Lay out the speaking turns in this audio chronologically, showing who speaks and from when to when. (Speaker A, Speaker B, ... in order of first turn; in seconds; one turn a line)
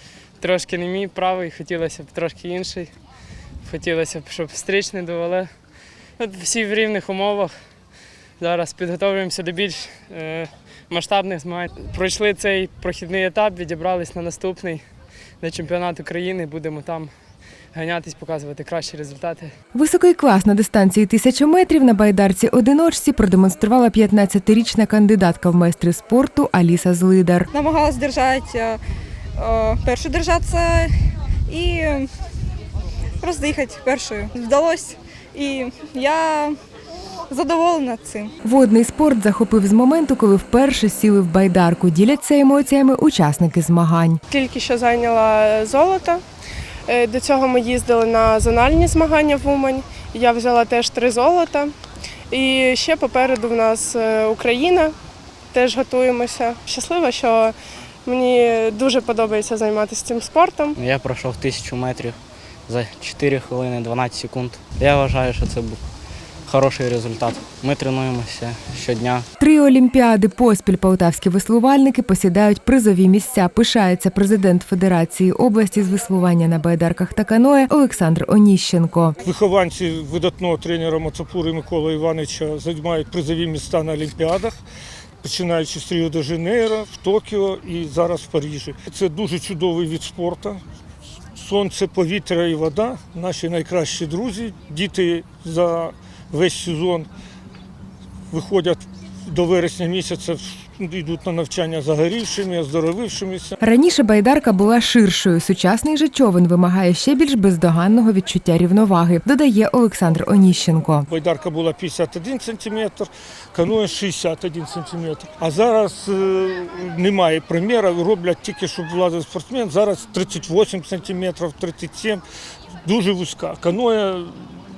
Speaker A: 0.4-2.9
Speaker A: 3.6-5.5
Speaker A: 6.2-7.5
Speaker A: 8.4-14.8
Speaker A: 15.4-17.1
Speaker A: 17.7-19.5
Speaker B: 19.7-27.5
Speaker C: 27.5-28.8
Speaker C: 29.4-32.1
Speaker C: 33.2-36.6
Speaker C: 37.3-38.3
Speaker B: 38.4-44.2
Speaker D: 44.3-46.2
Speaker D: 46.9-51.7
Speaker D: 52.3-54.9
Speaker D: 55.5-57.5
Speaker D: 58.0-60.7
Speaker E: 60.8-65.8
Speaker E: 66.5-69.3
Speaker B: 69.4-79.1
Speaker F: 79.2-84.5
Speaker F: 85.2-90.6
Speaker F: 91.3-97.1
Speaker F: 98.3-103.6
Speaker B: 103.6-111.1
Speaker F: 111.1-122.2
Speaker F: 122.8-124.6